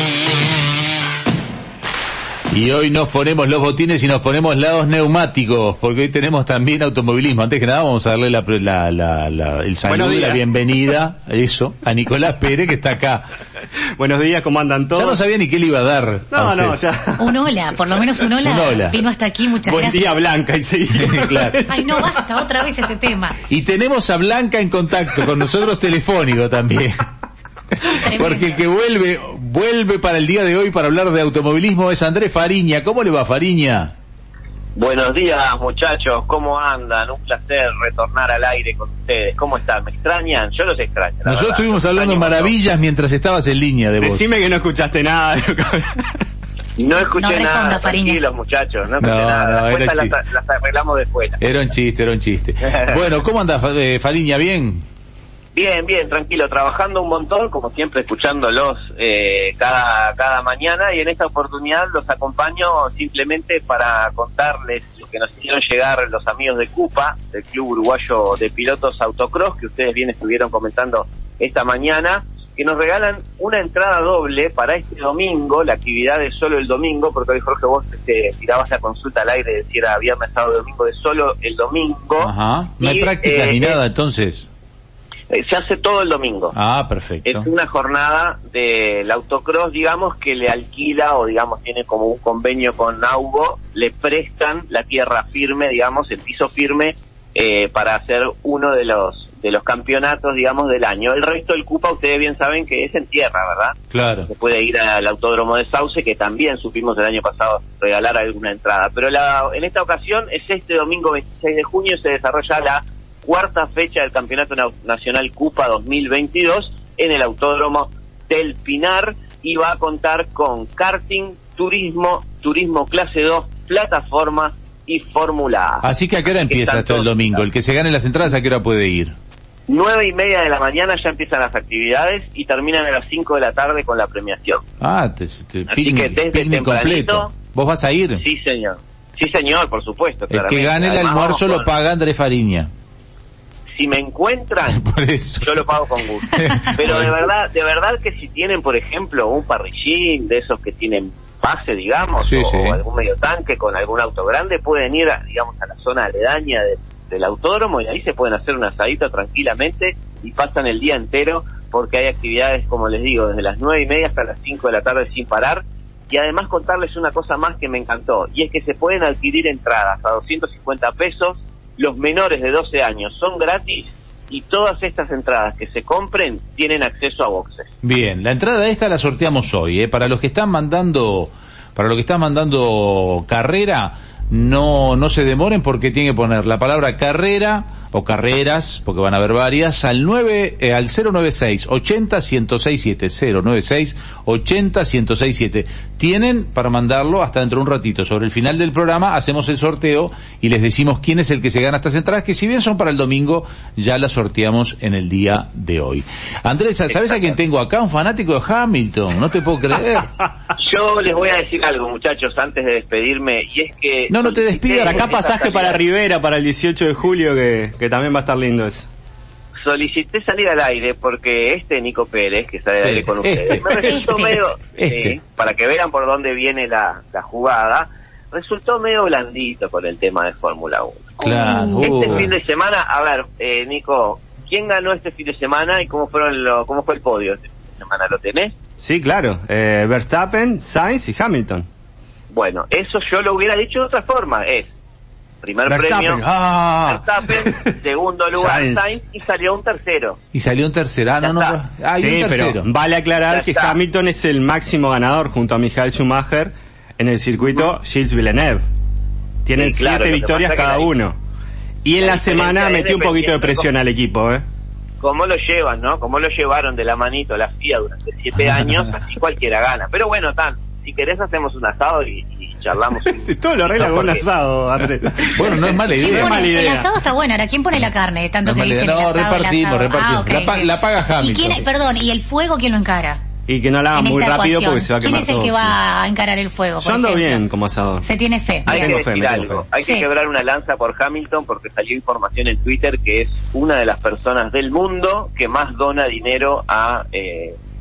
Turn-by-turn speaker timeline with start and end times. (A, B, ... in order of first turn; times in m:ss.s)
0:02.5-0:13.3 A
0:09.8-0:10.4 B
0:14.0-0:15.2 B
0:14.9-0:16.8 A
0:16.3-0:17.5 B
0:17.2-0:20.3 C
0:18.4-0:19.0 A
0:19.6-0:22.2 B
0:21.0-0:21.6 A
0:21.7-0:23.4 C
0:23.5-0:27.1 A
0:27.8-0:28.6 C
0:27.9-0:33.9 A
0:34.8-0:42.5 D
0:41.2-0:44.2 A
0:44.0-0:46.2 B
0:46.8-0:51.4 D
0:47.2-0:48.2 C
0:49.0-0:50.2 A
0:51.4-0:54.8 A
0:52.6-0:53.0 D
0:55.6-1:23.8 D
1:22.2-1:24.5 A
1:25.3-1:26.5 D
1:26.5-1:27.5 A
1:27.3-2:05.8 D
1:43.9-1:44.3 A
2:05.8-2:09.2 A
2:06.4-2:07.4 D
2:09.7-2:14.6 D
2:14.8-2:18.2 A
2:15.7-2:17.3 D
2:18.2-2:21.7 D
2:20.3-2:22.7 A
2:23.8-2:24.8 D
2:24.7-2:25.6 A
2:25.4-2:57.7 D
2:26.2-2:27.2 A
2:32.2-2:32.8 A
2:57.8-3:30.1 A
3:30.6-3:35.9 D
3:34.1-3:35.1 A
3:34.8-3:38.9 B
3:39.6-3:51.2 D
3:42.8-3:44.0 A
3:43.8-3:44.4 C
3:44.8-3:45.2 A
3:51.2-3:52.0 C
3:51.2-3:52.3 A
3:51.8-3:58.5 D
3:58.8-4:01.7 B
4:02.3-4:04.7 D
4:05.4-4:06.2 D
4:05.7-4:07.7 B
4:06.8-4:10.2 D
4:08.4-4:09.0 B
4:10.3-4:12.7 A
4:11.2-4:11.6 D
4:12.0-4:18.6 B
4:13.3-4:13.8 D
4:19.4-4:21.2 B
4:19.6-4:20.9 D
4:21.8-4:24.4 B
4:22.0-4:23.7 D
4:25.0-4:33.2 D
4:33.1-4:36.9 B
4:33.8-4:34.2 D
4:35.3-4:36.5 A
4:36.0-4:43.2 C
4:38.4-4:41.7 A
4:43.5-4:45.8 B
4:43.9-4:47.4 C
4:46.8-4:48.1 B
4:48.0-4:49.0 C
4:48.7-4:49.6 B
4:48.7-4:57.6 D
4:49.8-4:50.1 C